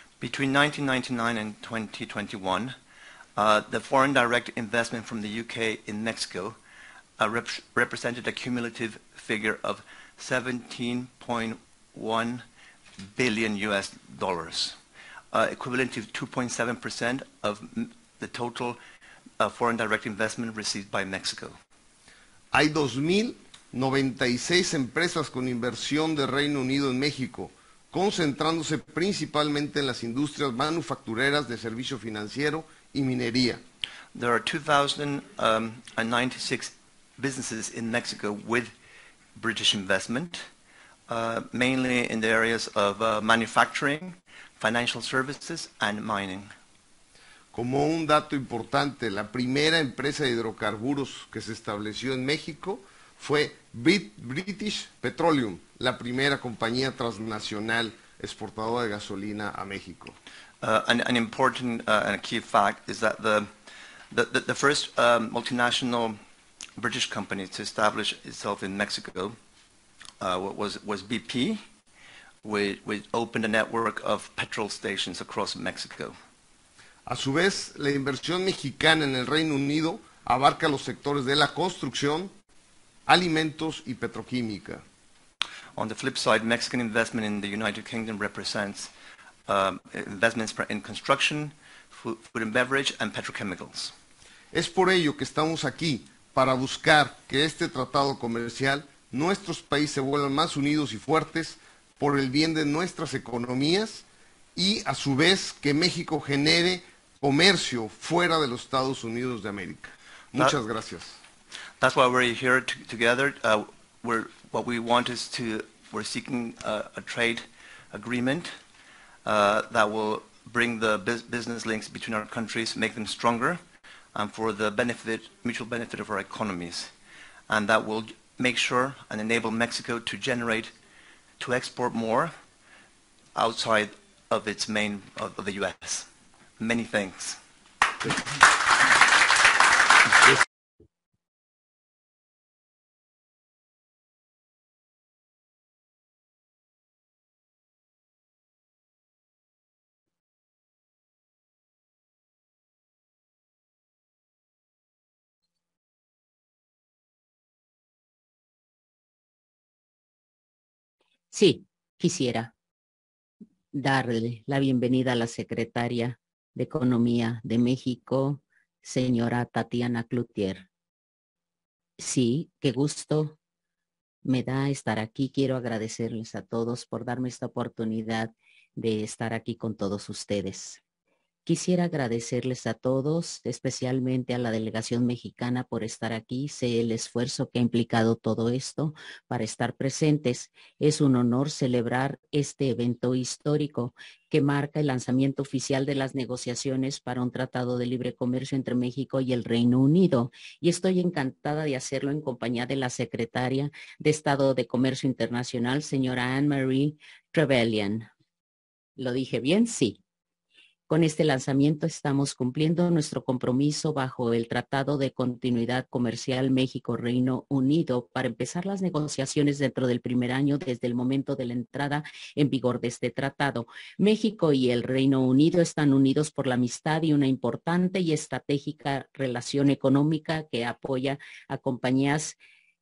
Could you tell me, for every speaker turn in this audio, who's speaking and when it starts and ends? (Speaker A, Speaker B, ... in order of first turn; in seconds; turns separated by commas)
Speaker A: 0.2-2.7, Speaker A: 3.4-6.5, Speaker A: 7.2-12.4, Speaker A: 13.0-14.8, Speaker A: 15.3-18.8, Speaker A: 19.4-21.6, Speaker B: 22.5-33.6, Speaker A: 34.1-38.7, Speaker A: 39.4-40.4, Speaker A: 41.1-46.5, Speaker B: 47.5-60.1, Speaker A: 60.6-63.5, Speaker A: 64.1-66.2, Speaker A: 66.8-69.3, Speaker A: 70.2-71.6, Speaker A: 72.4-76.1, Speaker B: 77.1-82.3, Speaker B: 83.1-84.8, Speaker A: 85.8-88.9, Speaker A: 89.5-93.9, Speaker B: 94.5-111.2, Speaker A: 111.8-118.5, Speaker A: 119.2-123.6, Speaker A: 124.1-126.9, Speaker A: 127.5-130.7, Speaker A: 131.4-132.3, Speaker A: 133.3-136.1, Speaker A: 136.6-137.4, Speaker C: 161.3-162.5, Speaker C: 163.7-170.7, Speaker C: 172.0-173.4, Speaker C: 174.2-180.8, Speaker C: 181.4-208.1, Speaker C: 209.0-210.0, Speaker C: 210.9-232.4